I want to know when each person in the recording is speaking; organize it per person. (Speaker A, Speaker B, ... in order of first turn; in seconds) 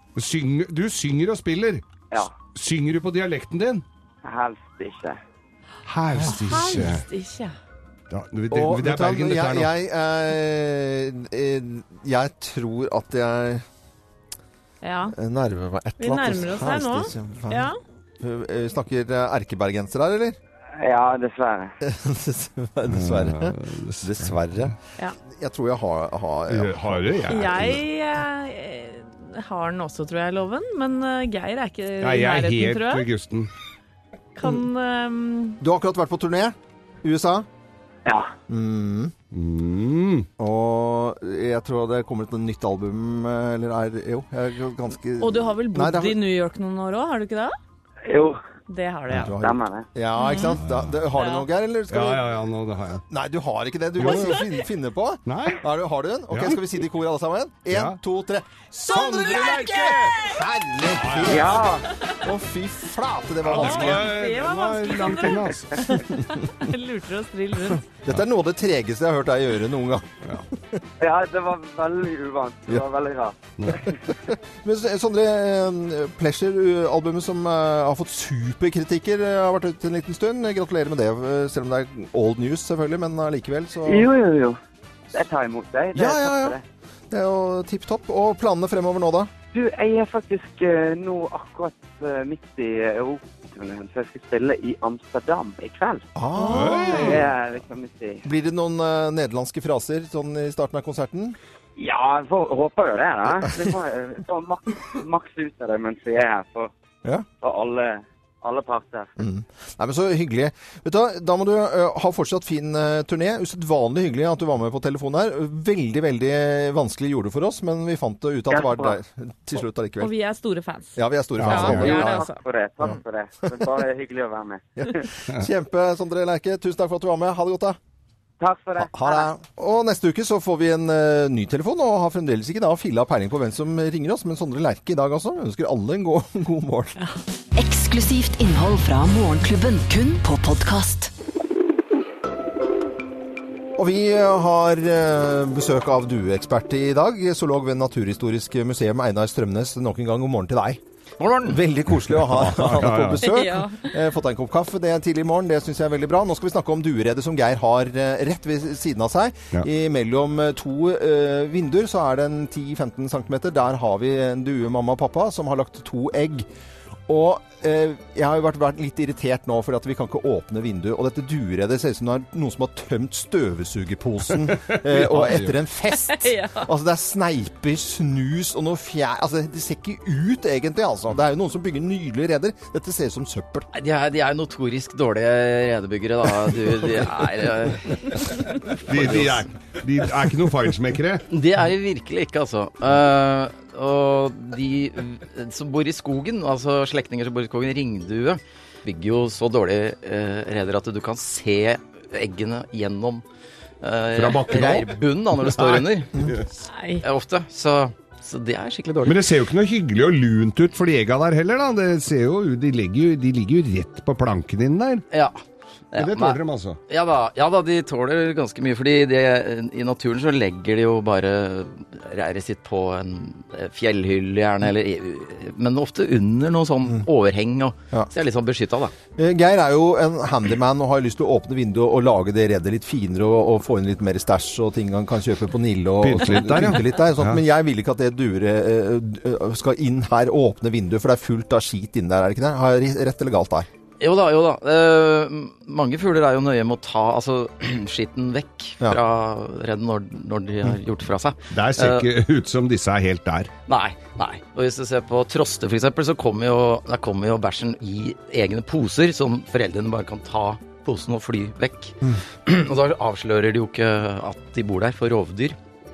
Speaker A: 0.1-1.8, 2.5-3.8, 5.8-7.0, 8.1-9.7, 22.9-24.3, 26.5-27.8, 32.0-33.5, 39.3-40.3, 50.6-51.0, 51.9-53.0, 54.0-54.5, 55.3-55.6, 56.3-56.6, 57.7-58.0, 58.8-60.3, 61.0-61.6, 63.4-66.0, 96.5-97.3, 121.4-121.9, 152.1-153.3, 174.7-175.6, 188.8-191.2, 204.1-206.4, 209.0-215.1, 215.9-216.8, 236.0-237.4, 251.5-253.5
Speaker B: 4.2-5.2, 20.8-21.7, 38.0-38.3, 48.1-48.4, 49.4-49.9, 61.2-61.8, 71.0-73.4, 83.8-84.6, 85.1-86.6, 89.5-96.0, 96.9-98.2, 101.8-106.7, 107.4-109.1, 118.5-119.0, 121.7-125.0, 128.4-129.3
Speaker C: 6.2-7.5, 14.8-15.1, 16.0-17.8, 27.3-33.0, 34.4-35.6, 45.2-47.5, 48.7-49.3, 50.2-50.6, 51.1-51.5, 59.0-60.3, 63.5-67.8, 96.4-96.8, 120.0-122.4, 153.2-153.9, 176.1-176.7, 206.7-207.0
Speaker D: 8.5-13.6, 15.1-20.4, 21.8-27.3, 35.6-37.5, 38.5-39.1, 40.4-46.2, 49.2-52.3, 53.1-61.7, 62.2-64.1, 68.0-70.8, 74.2-84.1, 85.9-86.6, 87.1-89.3, 96.1-97.3, 98.2-101.4, 109.2-120.1, 121.0-122.2, 124.8-127.8, 128.8-136.9, 143.8-150.8, 151.4-166.5, 167.1-183.7, 229.2-243.7
Speaker E: 137.5-141.1
Speaker F: 151.2-151.6, 183.7-189.4, 191.3-203.2, 203.8-206.3, 207.0-209.2, 215.1-215.4, 215.9-228.9, 244.0-252.1, 253.7-265.6